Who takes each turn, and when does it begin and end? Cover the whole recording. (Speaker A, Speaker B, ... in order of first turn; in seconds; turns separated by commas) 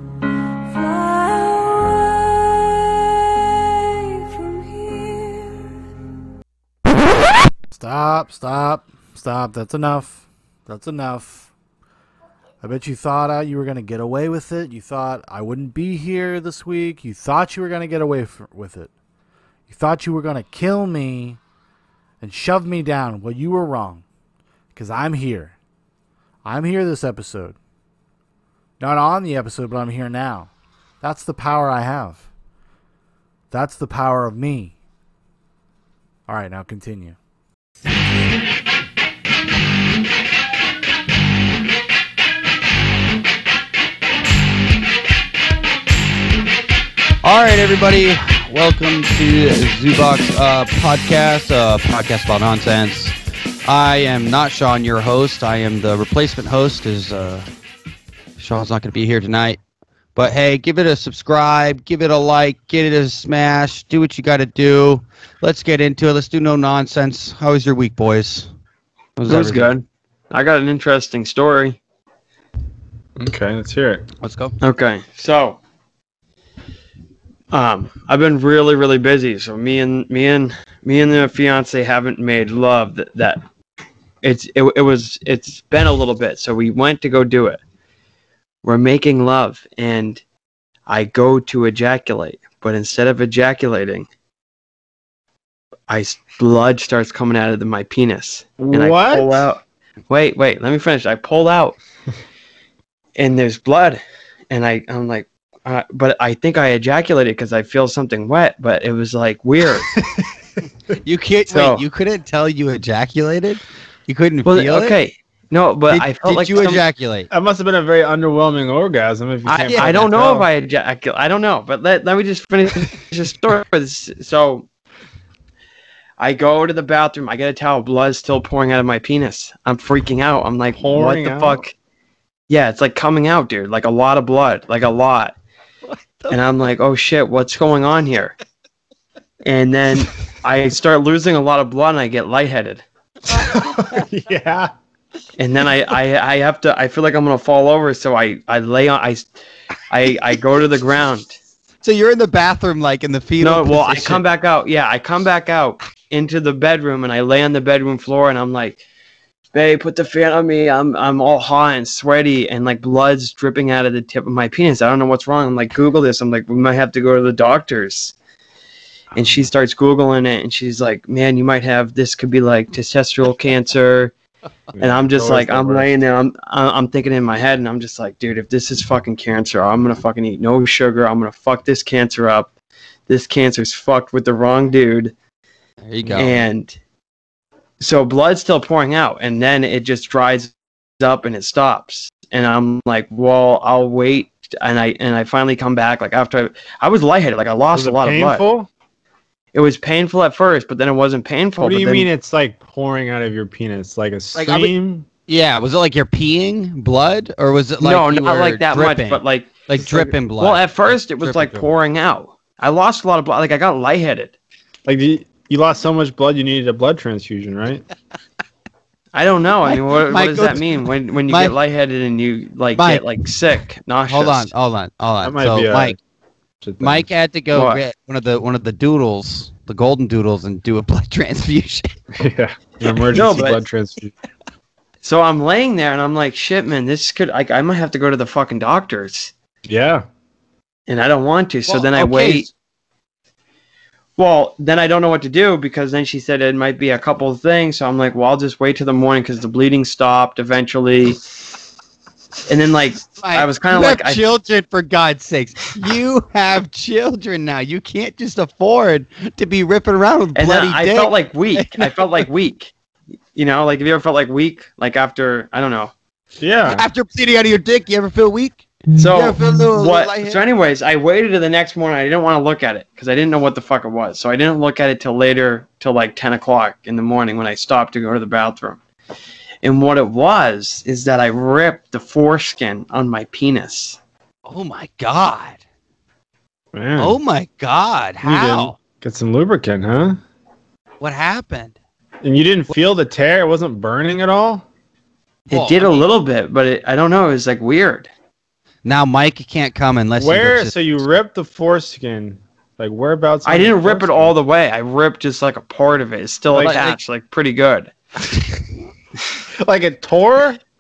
Speaker A: 0.7-5.7, Speaker B: 7.7-11.5, Speaker B: 12.6-18.9, Speaker B: 19.7-21.4, Speaker B: 22.2-24.0, Speaker B: 24.7-25.6, Speaker B: 26.4-27.6, Speaker B: 28.8-32.3, Speaker B: 33.5-34.8, Speaker B: 36.3-37.2, Speaker C: 47.2-57.5, Speaker C: 58.4-59.6, Speaker C: 60.1-68.5, Speaker C: 69.2-69.7, Speaker D: 69.3-71.8, Speaker E: 73.2-74.1, Speaker C: 74.2-74.5, Speaker D: 74.6-75.6, Speaker D: 77.5-83.4, Speaker D: 84.2-87.6, Speaker D: 88.6-90.2, Speaker D: 90.9-94.1, Speaker D: 95.9-101.8, Speaker E: 98.6-99.5, Speaker D: 103.2-110.0, Speaker E: 110.0-110.3, Speaker C: 111.0-115.0, Speaker D: 111.5-111.8, Speaker D: 114.5-116.8, Speaker C: 115.9-117.3, Speaker E: 117.3-120.5, Speaker D: 119.5-124.7, Speaker C: 119.6-120.3, Speaker D: 126.2-131.7, Speaker E: 130.8-131.6, Speaker D: 132.5-135.3, Speaker D: 136.3-138.4, Speaker D: 139.4-142.8, Speaker E: 143.3-144.7, Speaker D: 145.4-149.3, Speaker D: 149.9-151.4, Speaker C: 151.8-154.2, Speaker D: 153.4-158.8, Speaker D: 159.5-168.1, Speaker D: 169.2-174.1, Speaker E: 174.7-175.9, Speaker D: 174.8-182.5, Speaker D: 183.1-185.1, Speaker C: 185.9-186.4, Speaker D: 186.1-186.8, Speaker D: 187.8-198.4, Speaker E: 197.7-198.7, Speaker D: 199.5-202.1, Speaker E: 201.6-205.1, Speaker C: 204.3-204.7, Speaker C: 205.3-211.7, Speaker D: 207.8-214.3, Speaker E: 214.9-217.8, Speaker D: 219.1-224.5, Speaker C: 219.6-221.6, Speaker C: 222.8-223.0, Speaker C: 224.1-226.0, Speaker E: 225.2-226.0, Speaker E: 226.6-227.1, Speaker C: 226.8-231.9, Speaker D: 227.5-227.8, Speaker E: 232.2-234.1, Speaker D: 233.1-233.6, Speaker D: 235.0-239.3, Speaker E: 239.7-240.1, Speaker D: 240.9-242.5, Speaker C: 241.7-242.5, Speaker D: 244.2-251.2, Speaker D: 252.5-254.2, Speaker C: 253.2-262.1, Speaker D: 260.4-262.7, Speaker D: 263.4-265.9, Speaker E: 266.4-266.9, Speaker C: 266.7-270.4, Speaker D: 268.9-278.8, Speaker D: 279.6-284.0, Speaker C: 284.5-285.6, Speaker E: 286.7-287.2, Speaker C: 287.0-288.8, Speaker E: 288.2-290.2, Speaker C: 291.0-291.8, Speaker E: 292.2-294.7, Speaker C: 295.5-296.1, Speaker D: 295.5-298.1, Speaker C: 298.9-300.8, Speaker E: 300.2-304.3, Speaker D: 303.4-307.9, Speaker C: 306.6-307.0, Speaker E: 309.5-310.6